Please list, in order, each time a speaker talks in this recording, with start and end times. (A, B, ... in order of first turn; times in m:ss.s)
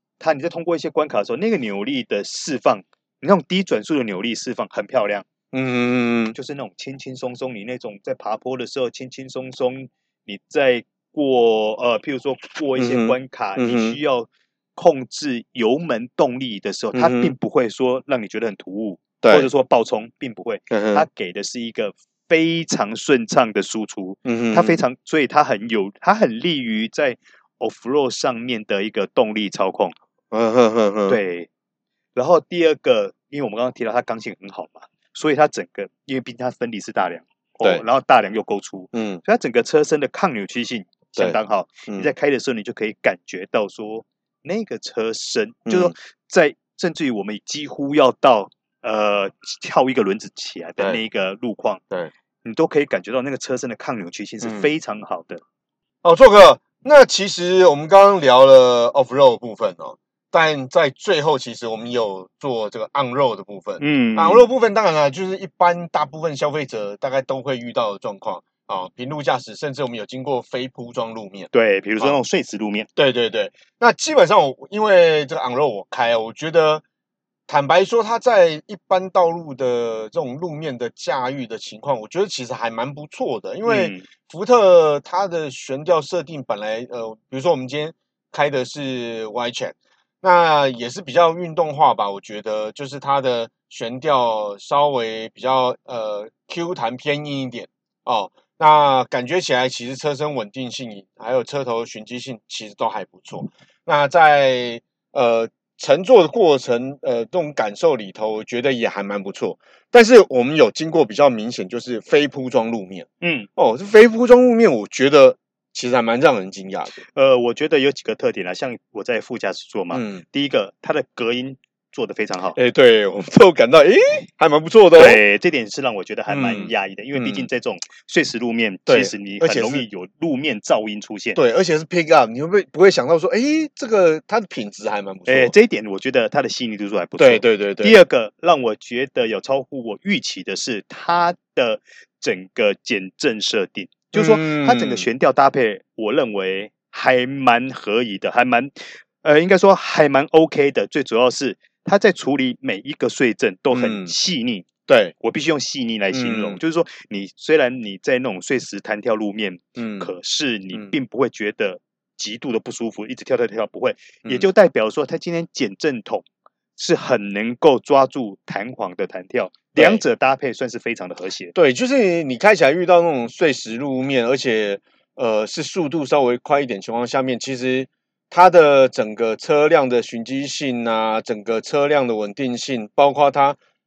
0:00.2-0:05.3 A
0:05.5-0:06.4 B
0:06.3-0:30.0 A
0:12.8-0:14.0 B
0:16.9-0:17.4 B
0:19.2-0:19.5 B
0:20.7-0:21.1 B
0:24.2-0:24.8 B
0:30.3-0:31.2 B
0:31.1-0:31.5 A
0:32.2-0:51.8 A
0:38.9-0:39.2 B
0:41.2-0:42.1 B
0:45.7-0:45.9 B
0:52.4-0:55.4 A
0:54.4-0:54.7 B
0:56.0-1:12.2 B
1:03.8-1:04.5 A
1:11.5-1:12.9 A
1:13.0-1:16.8 B
1:17.5-1:57.0 B
1:23.6-1:24.1 A
1:53.2-1:53.5 A
1:57.1-2:02.6 A
1:59.9-2:00.2 B
2:02.6-2:05.2 B
2:05.0-2:11.4 A
2:06.3-2:07.5 B
2:08.9-2:09.8 B
2:11.4-2:15.5 B
2:15.3-2:34.7 A
2:17.2-2:18.0 B
2:24.1-2:25.1 B
2:33.7-2:34.1 B
2:34.9-2:35.1 B
2:35.2-2:46.2 A
2:36.1-2:36.6 B
2:39.8-2:40.1 B
2:46.8-2:51.5 A
2:49.8-2:50.0 B
2:51.5-3:03.6 B